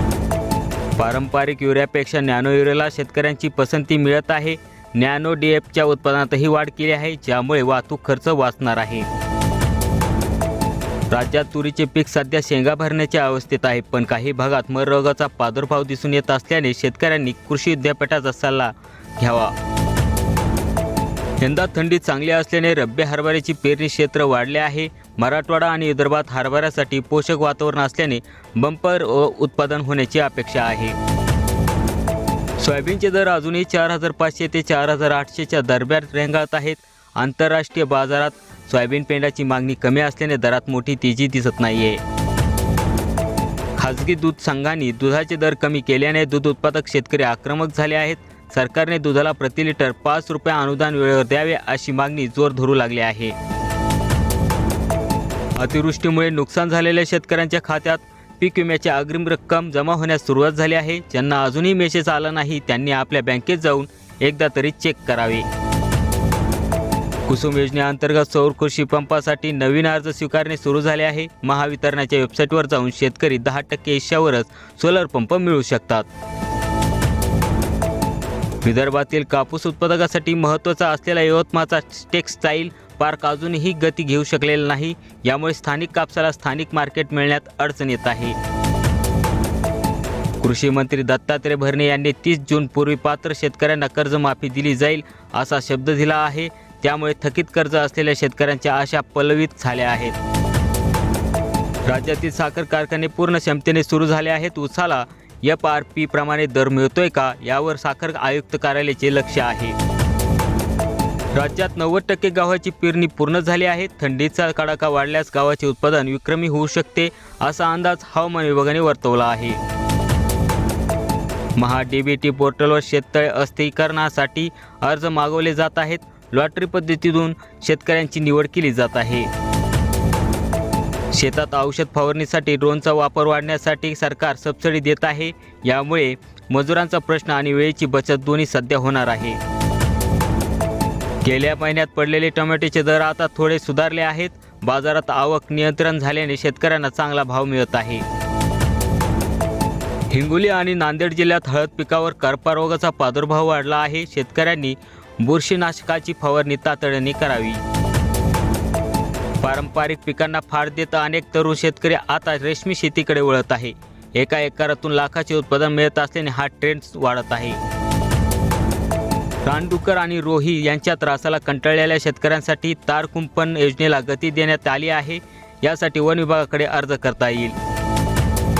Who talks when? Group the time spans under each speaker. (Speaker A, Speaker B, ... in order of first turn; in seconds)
Speaker A: 1.0-9.1, 11.1-19.5, 21.4-31.0, 32.6-42.0, 43.8-53.3, 55.6-65.5, 67.3-76.1, 78.6-88.4, 90.4-100.2, 101.8-109.8, 111.3-119.6, 121.6-129.3, 131.1-139.4, 141.2-148.0, 150.1-157.6, 159.4-167.6, 169.4-177.6